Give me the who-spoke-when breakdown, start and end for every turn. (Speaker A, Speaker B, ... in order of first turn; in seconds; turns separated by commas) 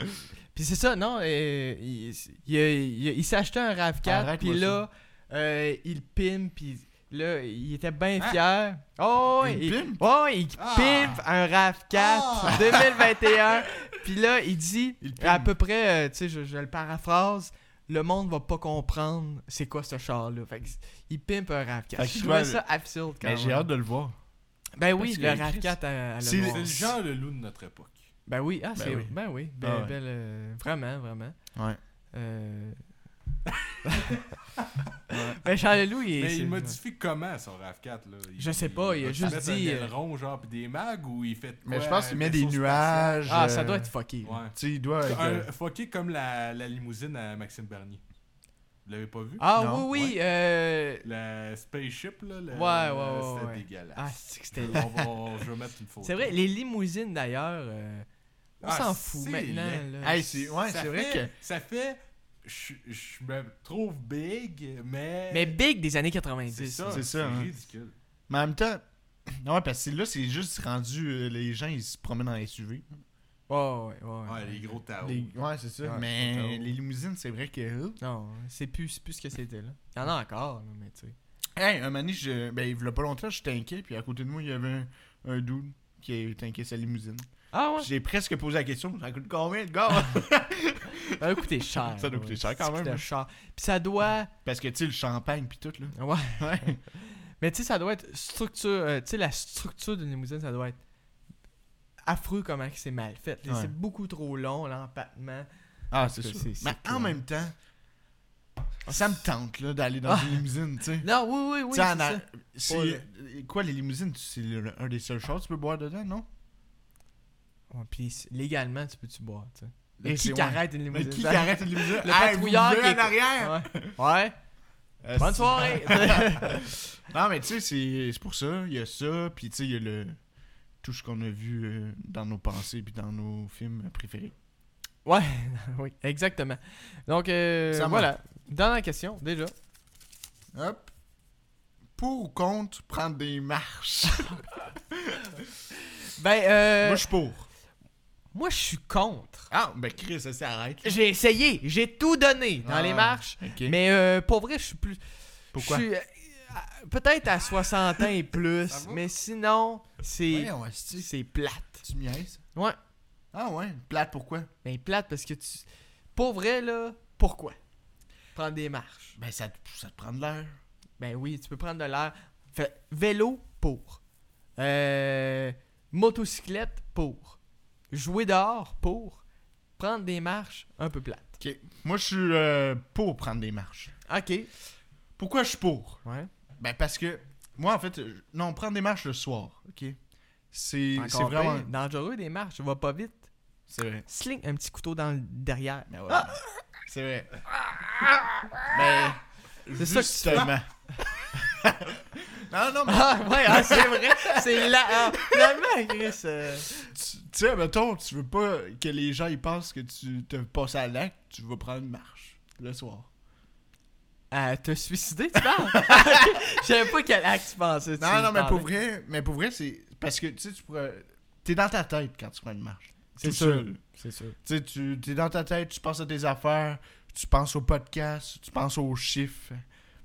Speaker A: 0.5-23.7, Speaker B: 4.0-4.8, Speaker B: 9.4-10.0, Speaker C: 10.6-11.2, Speaker B: 12.0-13.1, Speaker B: 15.0-15.5, Speaker B: 22.0-22.6, Speaker B: 23.2-24.2, Speaker A: 24.8-26.7, Speaker B: 25.0-27.0, Speaker C: 26.4-28.1, Speaker A: 28.3-31.4, Speaker B: 28.8-30.0, Speaker B: 31.5-31.8, Speaker A: 32.1-32.8, Speaker A: 33.8-34.2, Speaker B: 35.1-35.4, Speaker A: 35.1-36.8, Speaker C: 36.2-43.4, Speaker A: 38.4-39.9, Speaker B: 41.6-43.9, Speaker A: 43.3-44.4, Speaker C: 44.2-48.0, Speaker B: 44.5-45.5, Speaker C: 48.9-50.2, Speaker A: 49.4-51.0, Speaker B: 49.6-49.9, Speaker C: 51.0-56.4, Speaker A: 52.5-54.9, Speaker A: 56.0-58.1, Speaker A: 58.6-60.5, Speaker C: 58.6-59.9, Speaker B: 60.0-61.3, Speaker C: 60.7-65.6, Speaker A: 65.3-67.0, Speaker C: 66.5-67.9, Speaker B: 66.9-67.5, Speaker B: 68.3-72.9, Speaker A: 73.5-74.6, Speaker C: 74.3-75.3, Speaker B: 75.0-78.0, Speaker A: 75.8-76.7, Speaker A: 78.0-81.2, Speaker B: 81.6-87.3, Speaker A: 87.5-87.9, Speaker B: 87.8-93.0, Speaker A: 91.2-94.3, Speaker B: 94.4-96.8, Speaker A: 96.0-100.8, Speaker A: 102.1-107.2, Speaker B: 103.5-103.7, Speaker B: 105.9-107.5, Speaker A: 108.9-109.2, Speaker B: 108.9-111.1, Speaker A: 110.1-110.5, Speaker A: 111.0-113.0, Speaker B: 111.7-116.3, Speaker A: 117.7-124.3, Speaker B: 120.0-124.0, Speaker B: 125.0-130.2, Speaker A: 125.2-126.7, Speaker B: 130.8-134.3, Speaker A: 135.1-139.5, Speaker B: 137.7-138.1, Speaker B: 140.5-140.9, Speaker B: 142.0-145.4, Speaker A: 145.8-147.1, Speaker B: 146.8-147.5, Speaker A: 148.3-149.5, Speaker B: 149.5-150.9, Speaker A: 150.8-155.0, Speaker B: 152.6-153.8, Speaker A: 155.5-161.8, Speaker B: 155.5-155.9, Speaker C: 158.7-159.0, Speaker B: 160.3-161.1, Speaker B: 161.8-162.4, Speaker B: 163.3-164.5, Speaker A: 164.6-167.6, Speaker A: 168.3-169.2, Speaker B: 169.2-170.6, Speaker A: 171.0-174.0, Speaker A: 174.6-177.4, Speaker A: 177.9-179.2, Speaker A: 179.8-181.4, Speaker B: 181.4-183.9, Speaker A: 184.1-184.5, Speaker B: 185.2-186.0, Speaker B: 186.6-190.0, Speaker B: 190.5-191.7, Speaker A: 191.0-193.3, Speaker B: 193.7-194.1, Speaker A: 194.1-196.3, Speaker B: 195.9-197.3, Speaker B: 198.7-200.7, Speaker A: 199.8-200.6, Speaker B: 201.3-205.6, Speaker A: 202.9-206.9, Speaker B: 206.7-213.1, Speaker A: 214.3-218.7, Speaker B: 215.6-216.4, Speaker B: 218.0-223.8, Speaker A: 223.2-224.4, Speaker B: 224.4-229.7